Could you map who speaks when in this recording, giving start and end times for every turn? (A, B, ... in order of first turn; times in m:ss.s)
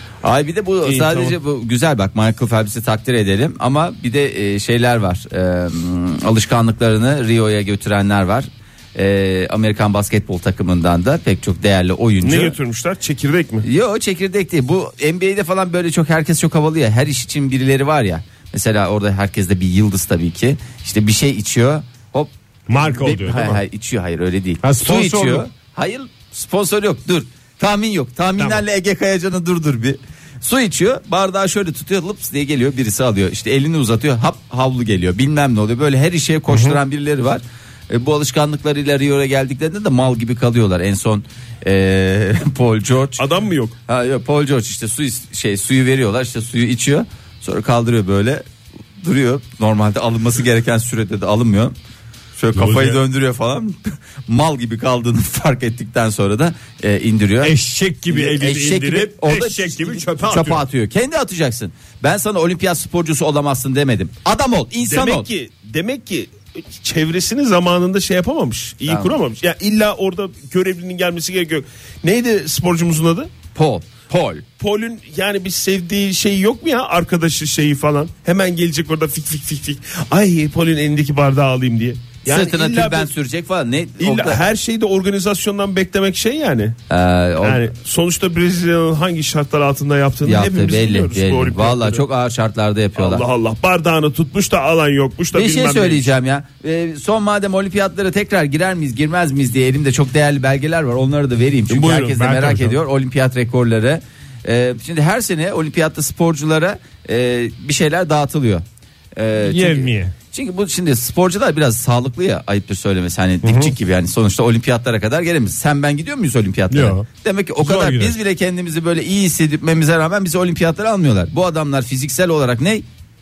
0:00.2-0:12.6 A
0:00.8-0:01.4 B
0:12.2-0:13.6 B
0:13.6-0:43.2 A
0:22.7-0:23.6 C
0:24.6-0:25.4 C
0:36.5-0:36.8 C
0:43.2-0:43.8 B
0:43.9-0:48.4 A
0:49.0-0:51.7 A
0:52.4-0:57.6 A
0:52.5-0:53.0 C
0:57.4-1:00.6 C
0:58.1-1:05.3 A
1:04.8-1:13.3 B
1:08.9-1:09.2 A
1:13.5-1:14.4 A
1:14.6-1:23.1 B
1:22.2-1:24.4 A
1:24.0-1:26.8 B
1:26.9-1:27.6 A
1:27.4-1:32.0 B
1:30.2-1:33.2 A
1:33.0-1:36.1 B
1:35.3-1:48.6 A
1:41.7-1:42.8 C
1:49.2-2:02.8 A
1:49.4-1:50.1 C
1:53.4-1:53.7 C
1:56.7-1:57.1 C
1:57.6-1:58.2 C